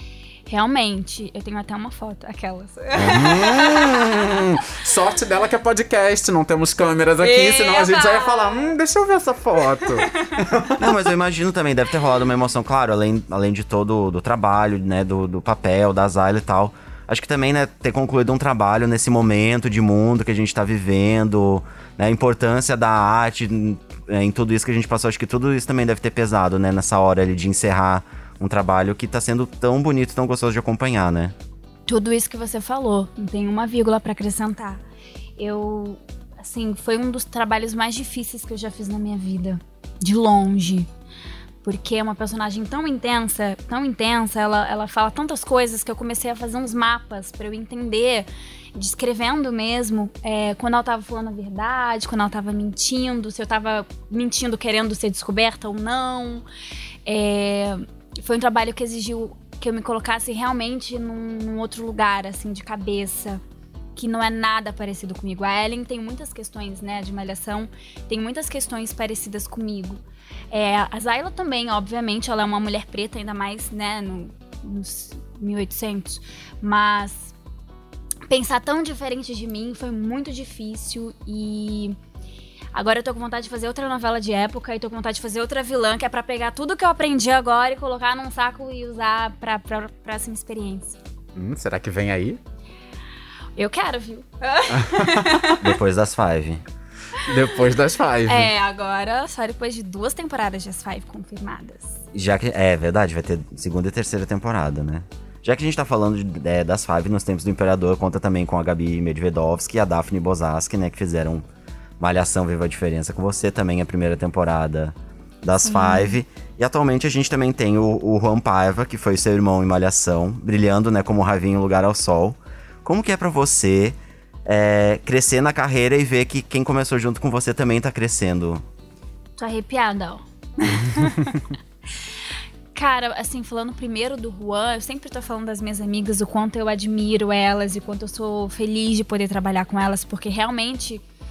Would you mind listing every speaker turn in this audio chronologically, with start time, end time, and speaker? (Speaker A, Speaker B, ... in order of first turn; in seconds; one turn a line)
Speaker A: 0.5-4.7
Speaker B: 2.9-3.5
Speaker C: 3.0-10.9
Speaker A: 7.2-8.7
Speaker B: 10.8-31.3
Speaker A: 31.9-34.8
Speaker A: 35.4-40.9
Speaker A: 41.6-56.4
Speaker A: 57.0-63.4
Speaker A: 63.9-77.3
Speaker A: 78.3-82.0
Speaker A: 82.7-91.0
Speaker C: 91.3-92.4
Speaker A: 93.6-95.6
Speaker C: 94.7-95.5
Speaker B: 95.6-96.6
Speaker C: 97.2-98.5
Speaker A: 98.3-102.0
Speaker B: 102.1-111.4
Speaker B: 112.0-128.6
Speaker A: 115.6-116.2
Speaker A: 129.4-131.4
Speaker A: 132.7-141.0